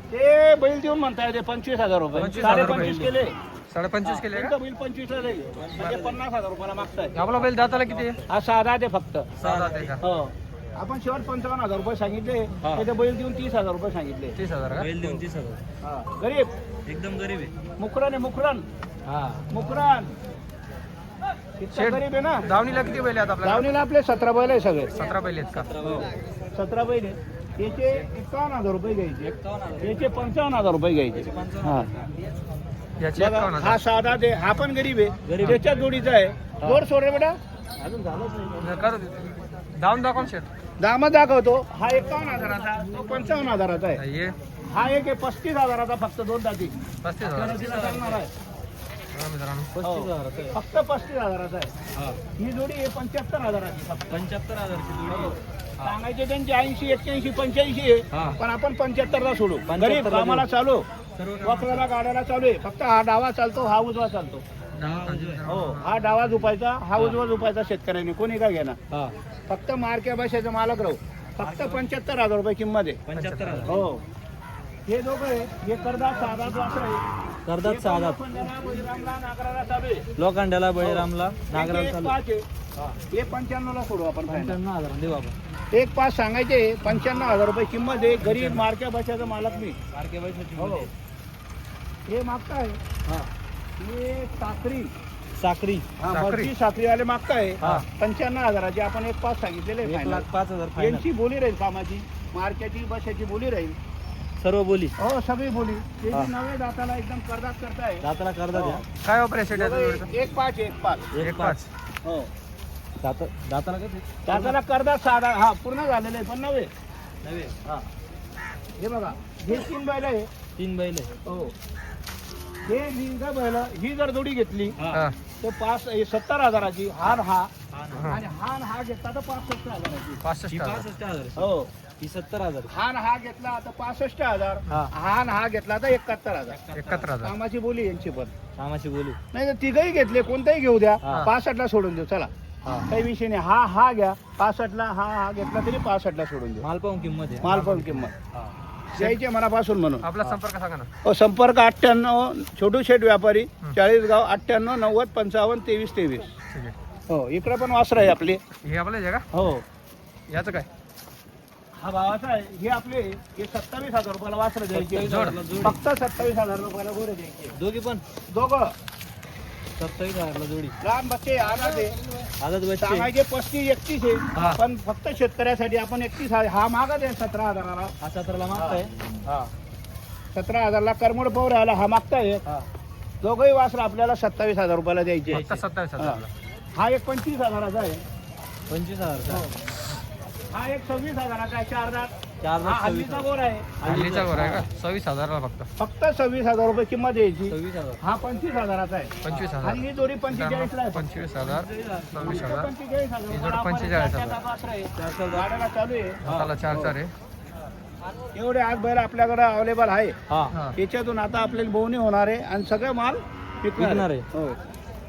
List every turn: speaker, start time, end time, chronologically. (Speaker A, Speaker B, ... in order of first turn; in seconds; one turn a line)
Speaker A: 0.1-3.4
Speaker B: 2.1-3.0
Speaker C: 2.2-3.1
Speaker B: 3.7-4.5
Speaker A: 4.0-7.2
Speaker C: 5.5-6.2
Speaker B: 7.1-8.2
Speaker C: 7.4-8.1
Speaker A: 8.3-9.3
Speaker B: 9.4-10.0
Speaker C: 9.4-9.9
Speaker A: 10.0-14.3
Speaker B: 14.3-14.9
Speaker C: 14.7-15.6
Speaker A: 15.8-16.5
Speaker C: 16.9-17.5
Speaker A: 17.8-18.6
Speaker C: 19.1-19.4
Speaker A: 19.5-20.1
Speaker A: 21.6-22.5
Speaker B: 21.7-23.7
Speaker A: 23.4-24.9
Speaker B: 24.9-25.7
Speaker C: 25.5-26.1
Speaker A: 25.8-31.9
Speaker C: 29.2-30.1
Speaker C: 31.1-32.1
Speaker B: 33.0-33.8
Speaker A: 33.1-37.4
Speaker C: 35.2-35.7
Speaker C: 36.6-36.8
Speaker C: 37.8-38.6
Speaker B: 38.6-40.5
Speaker A: 40.8-44.0
Speaker B: 44.0-44.4
Speaker A: 44.7-48.3
Speaker B: 47.0-47.6
Speaker C: 47.5-48.2
Speaker B: 49.1-49.8
Speaker C: 49.8-50.5
Speaker A: 49.8-51.7
Speaker A: 52.4-54.2
Speaker C: 54.1-55.9
Speaker A: 55.1-60.9
Speaker C: 58.1-58.4
Speaker C: 59.7-60.5
Speaker C: 61.1-61.9
Speaker A: 61.4-64.4
Speaker C: 64.7-65.4
Speaker B: 65.0-65.9
Speaker A: 65.5-68.8
Speaker A: 69.5-73.0
Speaker C: 71.4-71.8
Speaker C: 73.0-73.8
Speaker B: 73.1-73.8
Speaker A: 73.7-74.0
Speaker A: 74.9-77.0
Speaker C: 77.5-78.2
Speaker A: 77.6-80.1
Speaker C: 80.2-82.2
Speaker A: 80.8-82.5
Speaker A: 83.1-84.6
Speaker C: 84.3-85.3
Speaker A: 85.7-89.8
Speaker C: 88.2-88.7
Speaker C: 89.9-90.9
Speaker A: 90.5-90.9
Speaker A: 92.1-92.8
Speaker A: 93.8-94.9
Speaker C: 95.3-95.8
Speaker A: 96.0-103.8
Speaker B: 96.1-96.5
Speaker C: 99.8-101.0
Speaker C: 104.4-104.9
Speaker A: 105.0-108.8
Speaker C: 108.0-108.8
Speaker B: 109.0-110.1
Speaker A: 109.5-111.1
Speaker C: 111.1-111.6
Speaker B: 111.2-111.7
Speaker A: 112.0-112.3
Speaker C: 113.0-114.5
Speaker A: 114.2-116.7
Speaker C: 117.2-117.6
Speaker A: 118.8-120.3
Speaker C: 120.5-121.1
Speaker A: 121.2-121.5
Speaker A: 122.7-124.8
Speaker C: 124.8-125.0
Speaker A: 125.4-127.5
Speaker C: 127.7-128.2
Speaker B: 127.9-128.2
Speaker A: 128.1-130.2
Speaker B: 130.2-130.9
Speaker C: 130.5-132.7
Speaker A: 131.3-131.7
Speaker A: 132.7-138.3
Speaker C: 136.5-136.8
Speaker B: 136.7-137.3
Speaker C: 138.6-139.2
Speaker A: 139.3-142.3
Speaker A: 142.9-146.7
Speaker C: 146.6-149.1
Speaker A: 147.4-148.1
Speaker A: 148.9-150.1
Speaker B: 150.0-150.9
Speaker A: 151.0-156.3
Speaker A: 157.1-158.4
Speaker B: 158.6-159.3
Speaker A: 159.3-159.6
Speaker B: 160.3-160.7
Speaker A: 161.8-167.5
Speaker C: 164.7-165.8
Speaker B: 165.0-165.4
Speaker C: 167.5-168.0
Speaker A: 168.3-168.7
Speaker C: 169.8-170.7
Speaker A: 170.8-172.0
Speaker C: 172.4-173.1
Speaker A: 172.8-177.9
Speaker C: 174.3-174.6
Speaker C: 178.0-179.5
Speaker A: 178.5-178.8
Speaker A: 180.3-182.4
Speaker A: 183.2-185.4
Speaker C: 185.3-185.6
Speaker B: 185.3-186.3
Speaker A: 186.0-186.2
Speaker A: 186.7-188.0
Speaker C: 188.7-189.5
Speaker A: 190.5-193.9
Speaker C: 192.4-193.3
Speaker C: 193.8-194.6
Speaker B: 193.8-195.7
Speaker A: 195.8-206.2
Speaker C: 197.5-198.0
Speaker B: 199.2-202.7
Speaker C: 202.1-202.5
Speaker B: 203.3-204.4
Speaker C: 205.0-205.5
Speaker C: 206.2-206.6
Speaker B: 206.2-207.1
Speaker A: 208.3-210.2
Speaker C: 210.3-210.5
Speaker A: 210.8-214.6
Speaker C: 213.8-214.3